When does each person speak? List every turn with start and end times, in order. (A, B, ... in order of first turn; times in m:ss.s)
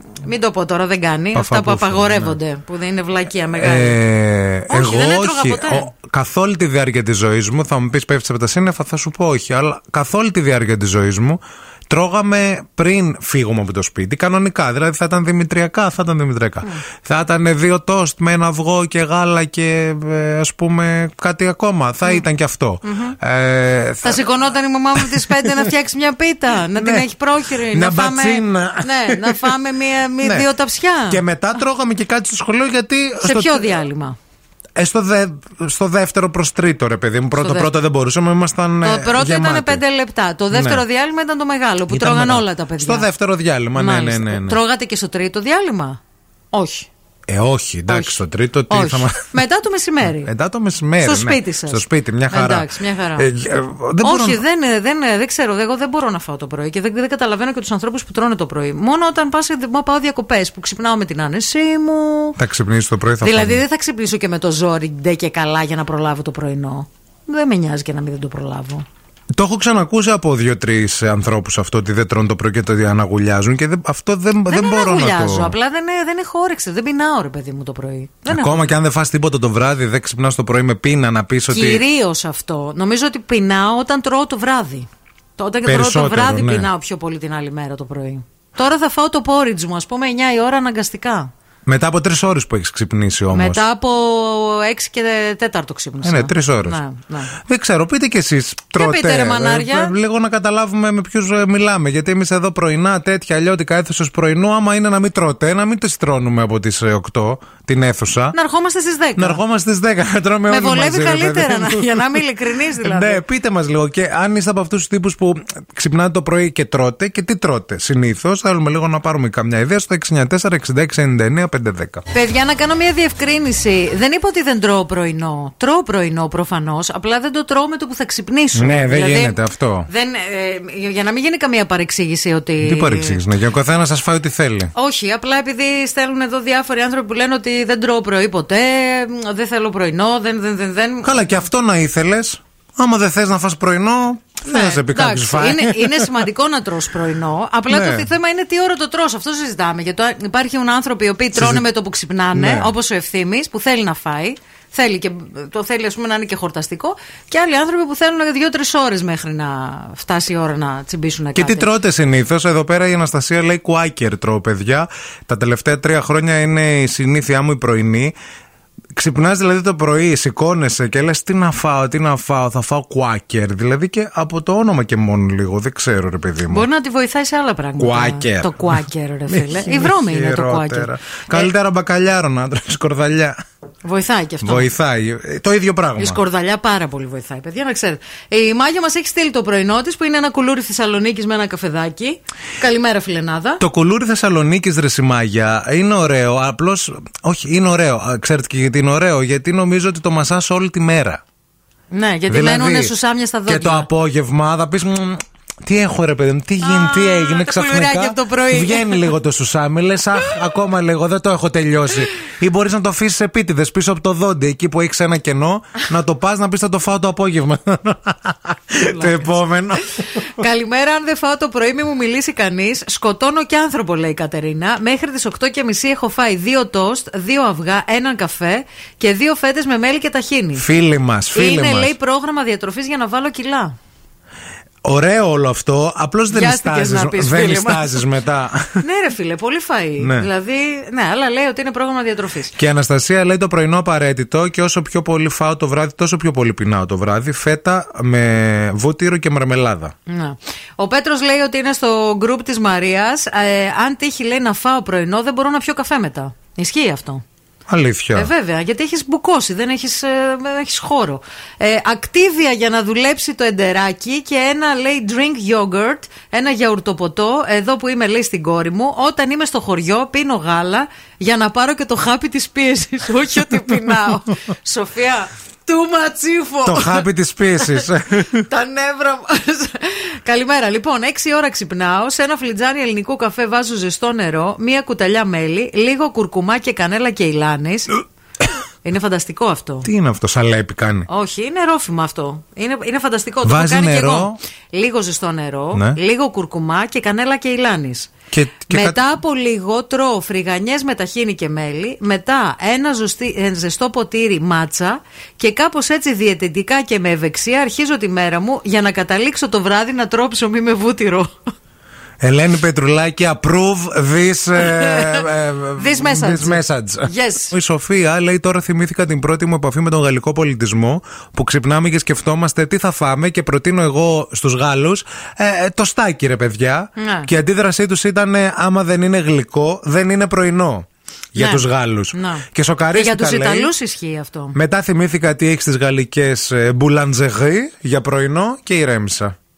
0:00.2-0:04.0 A
0:01.3-0:02.4 B
0:03.6-0:24.2 B
0:04.7-0:05.9 A
0:22.8-0:23.2 A
0:24.0-0:31.2 A
0:25.0-0:25.7 B
0:26.8-0:27.1 B
0:27.7-0:29.5 B
0:31.1-0:33.8 B
0:33.2-0:34.2 A
0:34.8-0:39.8 B
0:37.3-0:37.7 A
0:38.8-0:43.1 A
0:40.5-0:40.8 B
0:41.9-0:44.6 B
0:43.8-0:46.0 A
0:46.5-0:46.9 A
0:47.3-0:49.2 B
0:47.9-0:48.2 A
0:48.7-0:50.3 A
0:50.2-0:54.4 B
0:51.0-0:53.3 A
0:54.0-1:02.4 A
1:02.4-1:03.6 B
1:03.2-1:08.8 A
1:09.4-1:15.6 B
1:14.5-1:18.7 A
1:18.3-1:21.8 B
1:21.5-1:31.3 A
1:25.6-1:26.7 B
1:31.7-1:33.6 B
1:33.3-1:37.4 A
1:36.0-1:36.8 B
1:37.4-1:48.4 B
1:38.8-1:39.9 A
1:48.3-1:49.4 A
1:49.2-1:52.2 B
1:50.5-1:53.2 A
1:52.8-2:02.0 B
2:02.1-2:13.2 A
2:08.6-2:09.9 B
2:12.6-2:14.7 B
2:14.8-2:21.3 A
2:21.0-2:26.1 B
2:24.4-2:41.7 A
2:27.7-2:28.1 B
2:31.3-2:31.6 B
2:32.3-2:32.7 B
2:41.4-2:48.2 B
2:49.0-2:56.7 B
2:56.5-3:01.5 A
2:57.8-3:03.4 B
3:03.8-3:04.7 A
3:04.4-3:06.2 B
3:06.0-3:13.6 A
3:13.6-3:21.2 B
3:21.9-3:23.9 A
3:22.3-3:22.9 B
3:23.5-3:40.0 B
3:26.6-3:29.1 A
3:38.8-3:39.4 A
3:40.2-3:50.7 A
3:50.6-3:51.9 B
3:51.3-3:53.7 A
3:54.8-3:58.7 B
3:56.3-3:58.1 A
3:58.8-4:02.6 A
4:00.0-4:00.3 B
4:02.6-4:09.9 B
4:10.1-4:17.2 A
4:17.7-4:18.3 B
4:18.2-4:37.1 A
4:36.6-4:38.4 B
4:37.6-4:47.9 A
4:48.8-4:49.9 A
4:49.8-4:51.1 B
4:51.1-4:58.1 A
4:53.4-4:54.4 B
4:58.3-4:59.0 B
4:58.6-5:11.3 A
5:12.2-5:33.7 B
5:14.6-5:17.5 A
5:27.0-5:27.3 A
5:31.4-5:34.6 A
5:34.6-5:39.3 B